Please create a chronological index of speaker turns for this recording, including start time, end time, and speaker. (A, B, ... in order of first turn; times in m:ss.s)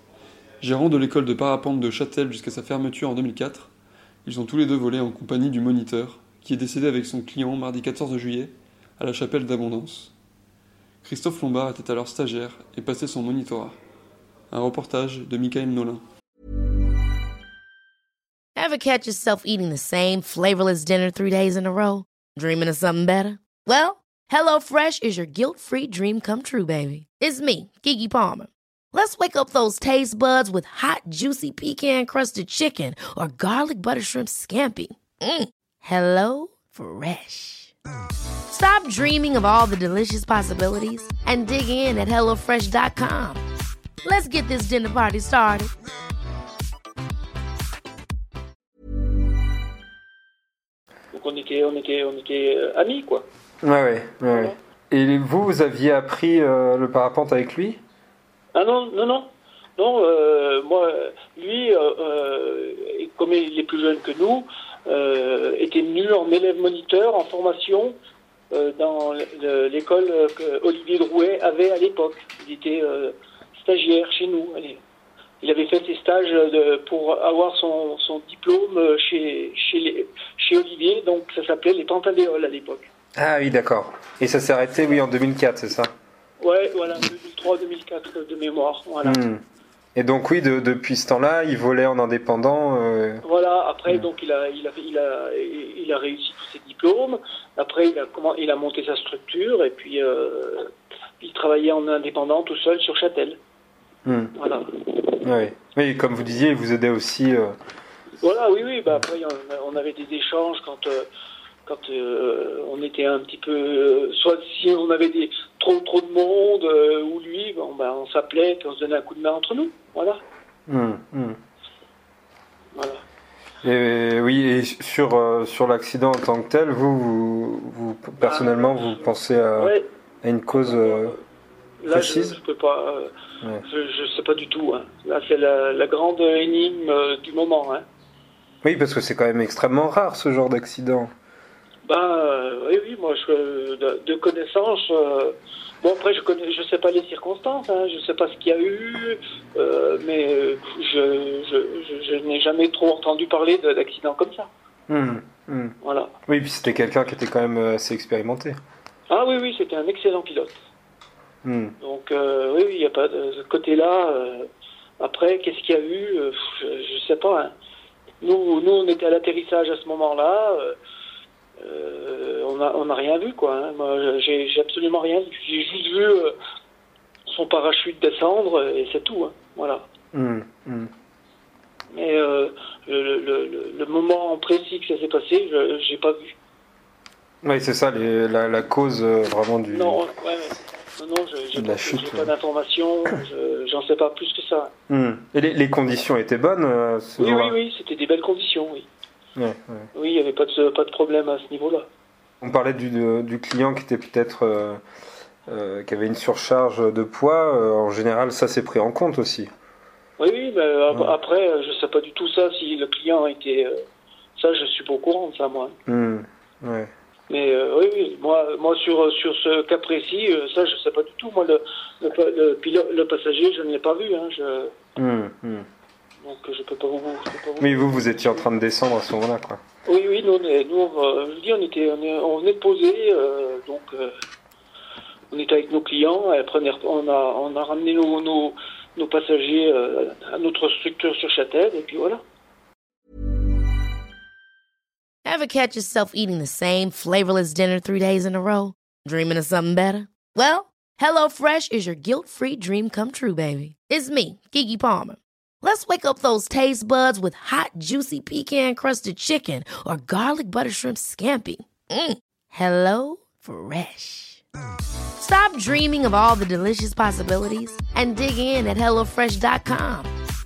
0:00.6-0:03.7 A
0:04.2-0:10.1 A
0:11.0-0:13.8 A
0:14.5-0:16.0 A
0:18.6-0:37.7 B
0:38.5-0:43.4 B
0:44.0-0:45.7 B
0:51.1-0:53.2 C
0:53.6-0:57.8 D
0:58.5-1:07.9 C
1:08.5-1:14.8 C
1:15.4-1:22.9 C
1:23.2-1:25.9 D
1:26.4-1:29.2 C
1:29.0-1:29.4 D
1:30.0-1:33.2 D
1:33.2-1:40.7 C
1:41.2-1:43.4 C
1:44.0-1:44.3 D
1:44.4-1:45.2 C
1:45.2-1:47.5 D
1:48.2-1:51.1 C
1:51.6-2:00.2 C
2:00.7-2:01.4 D
2:02.7-2:03.0 C
2:03.6-2:11.2 D
2:08.2-2:09.8 C
2:10.5-2:11.2 C
2:11.8-2:13.1 C
2:11.9-2:12.4 D
2:13.6-2:17.8 C
2:18.6-2:21.1 D
2:21.8-2:34.5 C
2:34.9-2:35.7 D
2:35.8-2:36.1 C
2:36.3-2:38.6 D
2:39.1-2:40.6 C
2:41.4-2:41.7 D
2:41.8-2:44.5 C
2:45.0-2:47.5 C
2:48.2-2:50.8 C
2:51.6-2:56.3 C
2:57.3-2:59.9 C
3:00.1-3:00.9 D
3:01.9-3:06.4 C
3:07.4-3:10.0 D
3:09.7-3:14.7 C
3:11.5-3:12.3 D
3:14.9-3:17.6 D
3:17.2-3:18.9 C
3:19.4-3:19.9 D
3:19.9-3:21.9 C
3:22.4-3:24.8 D
3:25.5-3:29.5 D
3:30.2-3:33.8 C
3:30.9-3:31.2 D
3:34.4-3:35.7 C
3:35.9-3:36.9 D
3:37.3-3:44.7 C
3:45.0-3:45.6 D
3:46.2-3:48.5 C
3:47.6-3:49.6 D
3:49.8-3:54.1 C
3:55.3-4:02.2 C
4:05.2-4:24.4 B
4:25.2-4:30.1 B